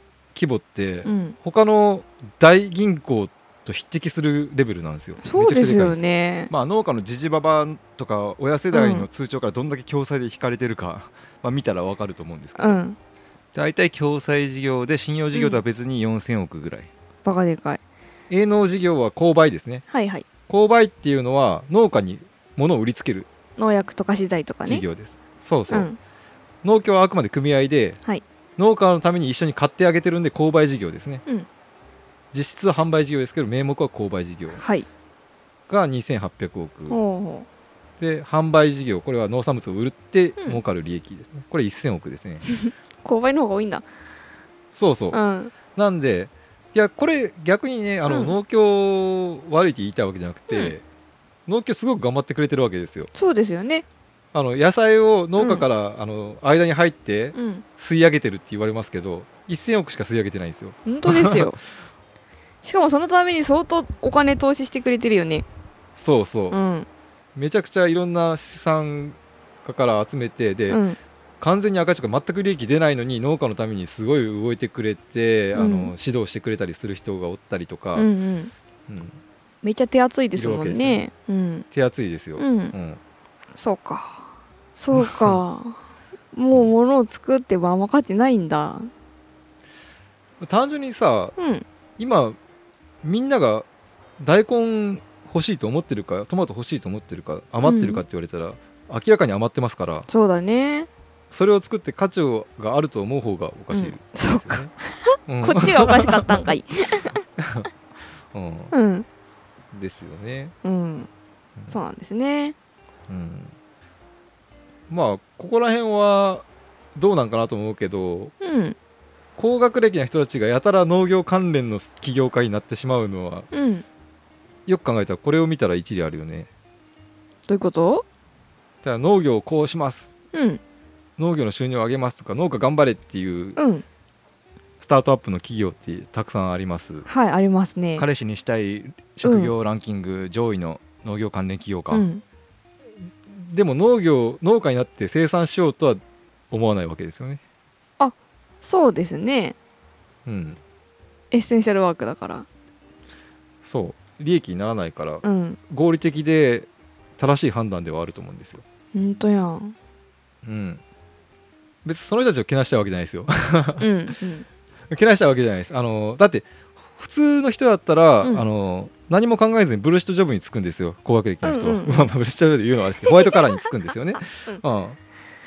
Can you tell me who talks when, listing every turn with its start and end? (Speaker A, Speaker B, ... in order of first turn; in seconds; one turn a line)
Speaker A: 0.3-12.8
Speaker B: 1.1-1.4
Speaker B: 5.2-6.5
Speaker B: 8.7-9.1
Speaker B: 12.6-13.0
Speaker A: 13.5-16.9
Speaker B: 15.3-15.6
Speaker B: 17.2-17.8
Speaker A: 18.3-19.8
Speaker B: 19.9-20.2
Speaker A: 20.5-23.3
Speaker B: 23.6-24.8
Speaker A: 24.6-25.9
Speaker B: 25.7-26.0
Speaker A: 26.6-28.0
Speaker A: 28.6-31.2
Speaker A: 32.3-34.6
Speaker B: 34.6-34.9
Speaker A: 35.7-37.0
Speaker B: 36.9-37.5
Speaker A: 38.0-42.5
Speaker B: 42.6-43.9
Speaker A: 44.7-45.2
Speaker B: 45.1-45.5
Speaker A: 45.7-50.8
Speaker B: 48.1-48.3
Speaker A: 51.5-53.1
Speaker B: 53.1-53.9
Speaker A: 54.3-61.5
Speaker B: 55.4-55.6
Speaker B: 57.3-57.6
Speaker B: 60.9-61.6
Speaker B: 62.6-65.5
Speaker A: 66.0-66.6
Speaker B: 66.5-66.9
Speaker A: 67.3-70.8
Speaker B: 70.7-71.0
Speaker A: 71.4-78.1
Speaker B: 75.5-75.9
Speaker B: 78.0-78.5
Speaker A: 78.9-79.2
Speaker B: 79.6-81.7
Speaker A: 80.3-81.0
Speaker A: 81.7-83.0
Speaker B: 82.4-82.7
Speaker B: 83.5-85.8
Speaker A: 84.9-85.4
Speaker B: 86.3-88.9
Speaker A: 90.4-91.3
Speaker B: 91.4-91.6
Speaker A: 92.0-92.4
Speaker A: 93.0-93.7
Speaker A: 94.2-100.1
Speaker B: 97.6-98.0
Speaker B: 100.1-100.9
Speaker A: 101.3-104.7
Speaker B: 103.7-107.2
Speaker A: 105.3-106.5
Speaker A: 107.4-107.7
Speaker A: 108.3-108.7
Speaker B: 108.7-109.0
Speaker A: 109.7-110.5
Speaker B: 110.6-111.1
Speaker B: 111.7-112.5
Speaker A: 113.1-113.5
Speaker A: 114.9-118.3
Speaker B: 118.4-118.8
Speaker A: 119.4-123.5
Speaker B: 123.5-123.8
Speaker A: 124.7-126.5
Speaker B: 127.5-128.0
Speaker A: 128.8-130.1
Speaker B: 130.3-130.6
Speaker A: 131.2-133.6
Speaker B: 133.6-133.8
Speaker A: 134.8-137.1
Speaker B: 137.1-138.1
Speaker A: 138.0-142.1
Speaker B: 139.2-139.5
Speaker B: 141.9-142.2
Speaker A: 143.3-147.4
Speaker B: 148.0-149.6
Speaker A: 150.2-150.6
Speaker B: 151.3-152.5
Speaker A: 153.6-158.6
Speaker B: 155.2-155.6
Speaker B: 158.9-159.7
Speaker A: 160.4-160.8
Speaker A: 161.8-163.9
Speaker B: 163.8-164.4
Speaker A: 164.9-175.0
Speaker B: 171.4-172.1
Speaker B: 173.2-173.7